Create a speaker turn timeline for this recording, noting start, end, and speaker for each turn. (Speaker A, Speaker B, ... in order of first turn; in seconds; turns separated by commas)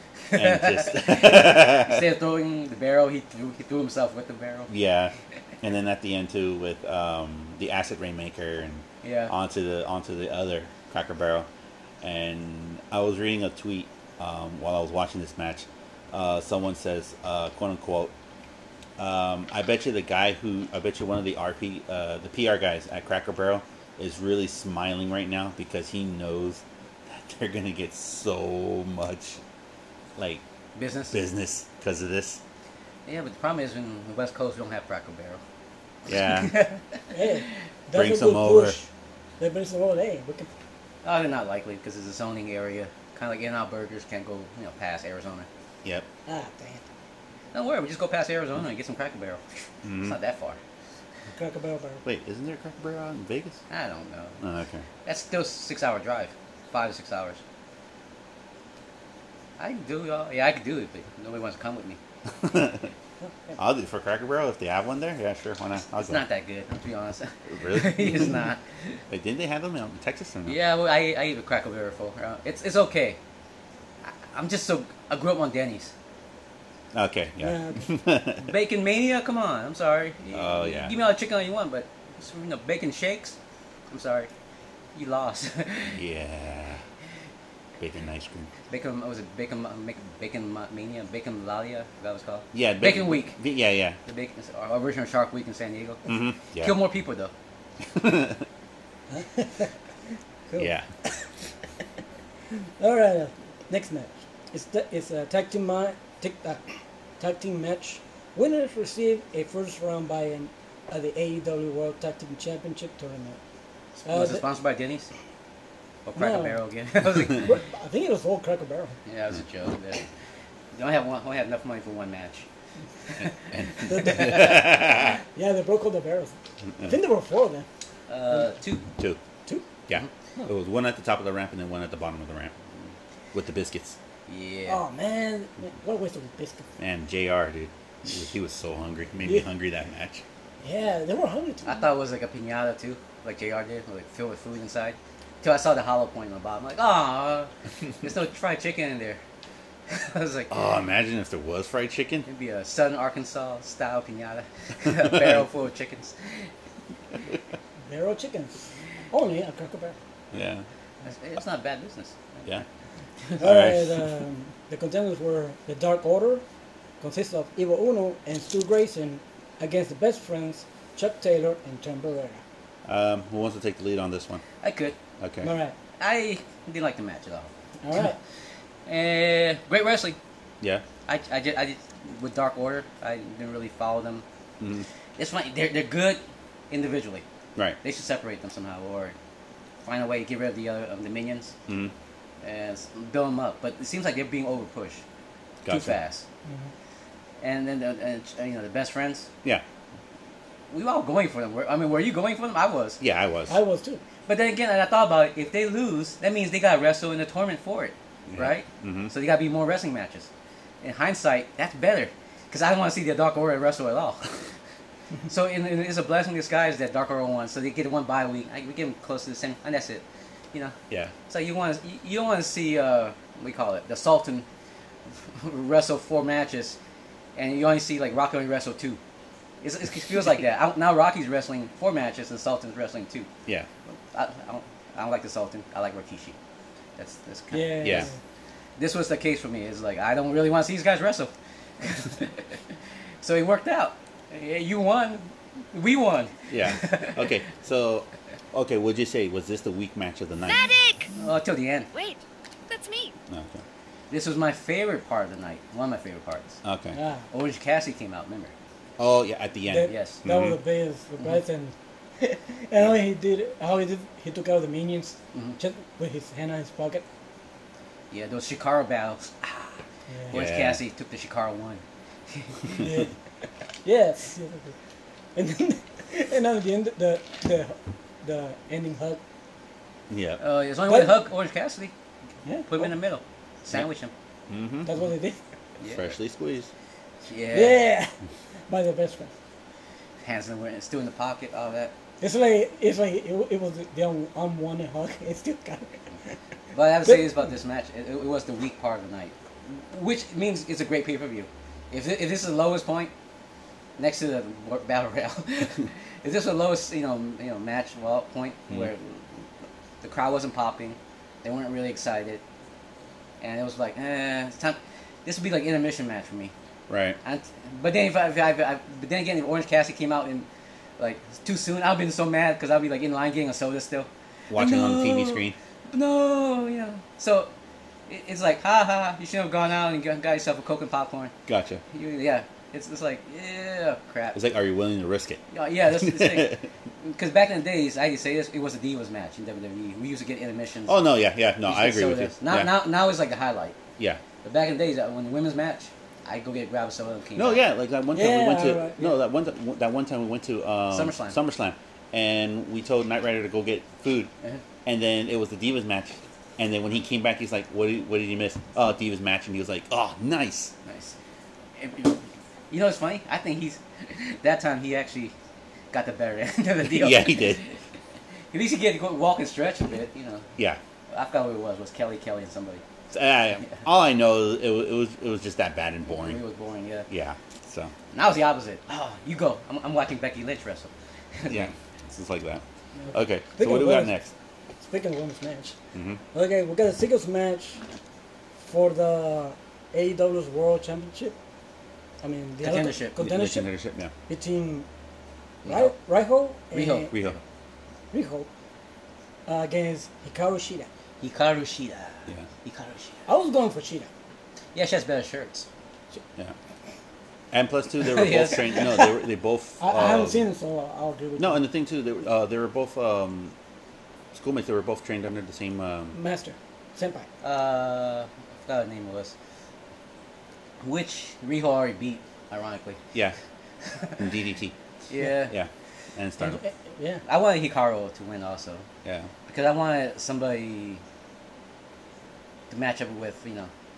Speaker A: 0.3-4.7, Speaker B: 0.3-2.1, Speaker B: 4.7-11.5, Speaker A: 9.0-9.3, Speaker B: 12.0-18.1, Speaker B: 19.0-29.4, Speaker B: 30.2-30.4, Speaker A: 30.8-31.2, Speaker B: 31.1-32.4, Speaker A: 33.1-35.4, Speaker B: 36.1-36.6, Speaker A: 36.1-37.0, Speaker C: 37.1-38.9, Speaker B: 37.9-38.8, Speaker C: 39.4-40.5, Speaker A: 41.0-45.5, Speaker C: 46.3-46.8, Speaker A: 47.5-50.6, Speaker B: 49.8-50.2, Speaker C: 51.3-52.0, Speaker B: 52.0-53.6, Speaker A: 53.7-54.4, Speaker B: 54.4-54.9, Speaker A: 55.0-57.4, Speaker A: 59.6-62.0, Speaker B: 62.4-62.9, Speaker B: 63.6-66.2, Speaker A: 65.9-69.0, Speaker B: 67.5-68.4, Speaker B: 69.1-70.6, Speaker A: 70.5-73.2, Speaker A: 74.0-75.9, Speaker B: 76.9-78.5, Speaker C: 77.4-77.9, Speaker A: 78.4-83.4, Speaker B: 80.3-81.0, Speaker A: 83.9-84.3, Speaker A: 85.0-86.0, Speaker B: 86.0-86.8, Speaker B: 87.8-88.5, Speaker A: 88.7-93.4, Speaker B: 92.5-94.0, Speaker A: 94.0-97.3, Speaker B: 96.1-96.8, Speaker B: 97.9-98.5, Speaker C: 99.1-99.7, Speaker C: 100.5-101.3, Speaker B: 100.6-100.9, Speaker C: 102.8-106.6, Speaker C: 107.2-113.4, Speaker A: 114.0-115.1, Speaker C: 114.1-114.4, Speaker A: 116.1-117.5, Speaker C: 116.2-116.6, Speaker C: 117.3-119.0, Speaker A: 119.1-120.0, Speaker A: 120.7-122.5, Speaker A: 123.1-124.5, Speaker B: 123.5-125.2, Speaker C: 123.9-127.7, Speaker A: 128.1-128.8, Speaker B: 129.9-132.6, Speaker B: 133.3-134.0, Speaker A: 134.3-134.8, Speaker C: 134.7-136.7, Speaker B: 136.8-140.2, Speaker C: 140.6-141.8, Speaker A: 141.7-147.5, Speaker A: 148.0-149.2, Speaker A: 149.9-150.6, Speaker B: 150.5-152.3, Speaker A: 152.3-156.5, Speaker C: 157.9-160.0, Speaker B: 160.3-160.7, Speaker A: 161.1-162.5, Speaker C: 163.4-166.4, Speaker B: 163.4-164.0, Speaker C: 167.0-172.4, Speaker B: 172.8-174.4, Speaker A: 174.6-175.0, Speaker B: 175.2-175.5, Speaker C: 175.4-175.8, Speaker A: 176.0-177.5, Speaker C: 177.8-178.2, Speaker A: 178.9-180.2, Speaker A: 181.1-184.2, Speaker B: 184.6-184.9, Speaker A: 185.2-187.2, Speaker A: 187.8-189.2, Speaker A: 189.8-191.6, Speaker B: 191.7-191.9, Speaker A: 192.4-195.0, Speaker B: 195.6-196.0, Speaker A: 195.7-196.2, Speaker C: 196.5-196.7, Speaker A: 197.4-199.3, Speaker A: 200.7-203.0, Speaker B: 203.0-203.6, Speaker C: 203.5-204.0, Speaker A: 204.3-210.3, Speaker B: 208.3-209.1, Speaker A: 210.8-214.3, Speaker A: 215.3-220.8, Speaker A: 221.3-224.5, Speaker A: 225.2-226.8, Speaker A: 227.4-229.0, Speaker A: 229.6-233.3, Speaker A: 233.9-236.4, Speaker A: 237.0-238.1, Speaker C: 237.5-238.2, Speaker B: 237.8-238.1, Speaker A: 238.8-242.6, Speaker A: 243.2-247.3, Speaker B: 246.5-250.7, Speaker D: 250.5-251.1, Speaker A: 251.2-251.9, Speaker D: 251.9-253.2, Speaker B: 253.3-253.6, Speaker A: 254.1-256.6, Speaker B: 256.6-257.0, Speaker C: 256.9-257.3, Speaker A: 257.3-258.5, Speaker B: 259.0-260.6, Speaker C: 259.7-267.1, Speaker A: 259.9-260.2, Speaker A: 268.1-269.8, Speaker C: 270.1-270.4, Speaker A: 270.3-272.9, Speaker B: 270.3-270.8, Speaker C: 272.8-273.1, Speaker C: 273.8-274.7, Speaker C: 275.4-279.2, Speaker B: 280.1-280.4, Speaker A: 280.4-281.9, Speaker C: 280.9-281.2, Speaker C: 282.4-282.9, Speaker A: 282.7-284.1, Speaker B: 284.5-284.9, Speaker C: 284.9-285.4, Speaker A: 285.8-286.1, Speaker B: 285.9-286.7, Speaker A: 287.2-287.9, Speaker C: 287.5-288.1, Speaker C: 288.7-289.3, Speaker A: 290.2-291.9, Speaker C: 292.2-296.0, Speaker A: 296.7-303.1, Speaker C: 297.1-297.3, Speaker A: 304.0-309.5, Speaker A: 310.0-312.4, Speaker A: 313.4-316.5, Speaker B: 316.9-317.2, Speaker A: 317.2-320.5, Speaker A: 321.0-327.5, Speaker B: 324.5-325.6, Speaker A: 328.1-331.3, Speaker B: 331.5-331.8, Speaker A: 331.9-334.4, Speaker B: 334.3-336.7, Speaker A: 335.5-341.0, Speaker B: 340.9-342.7, Speaker A: 341.6-343.8, Speaker A: 344.4-347.6, Speaker B: 347.4-354.3, Speaker C: 348.1-349.1, Speaker A: 350.9-351.4, Speaker B: 354.9-360.7, Speaker A: 360.9-361.1, Speaker A: 361.8-365.3, Speaker A: 365.9-367.8, Speaker B: 366.9-367.6, Speaker A: 368.5-370.5, Speaker A: 371.1-372.8, Speaker B: 373.1-376.4, Speaker A: 376.1-377.1, Speaker B: 377.1-377.9, Speaker A: 378.1-381.7, Speaker B: 381.5-384.3, Speaker C: 383.0-384.1, Speaker C: 384.8-385.8, Speaker B: 385.9-386.2, Speaker C: 386.3-387.8, Speaker C: 388.6-391.4, Speaker C: 392.2-393.7, Speaker A: 392.6-393.2, Speaker B: 393.2-394.1, Speaker C: 394.3-394.9, Speaker A: 395.6-395.9, Speaker C: 395.6-397.1, Speaker A: 396.7-397.4, Speaker B: 397.1-397.4, Speaker C: 398.1-398.5, Speaker C: 399.5-400.9, Speaker A: 401.2-403.2, Speaker C: 403.3-404.1, Speaker A: 404.8-405.7, Speaker B: 407.5-410.4, Speaker A: 408.0-409.1, Speaker C: 409.8-411.6, Speaker B: 411.4-413.5, Speaker B: 414.3-416.2, Speaker C: 416.1-417.3, Speaker A: 417.4-419.3, Speaker A: 420.8-423.0, Speaker A: 423.8-424.2, Speaker B: 424.2-424.7, Speaker A: 425.1-425.5, Speaker B: 425.5-426.6, Speaker C: 426.4-427.2, Speaker A: 427.2-428.9, Speaker B: 429.0-429.3, Speaker A: 429.5-431.0, Speaker A: 432.7-433.7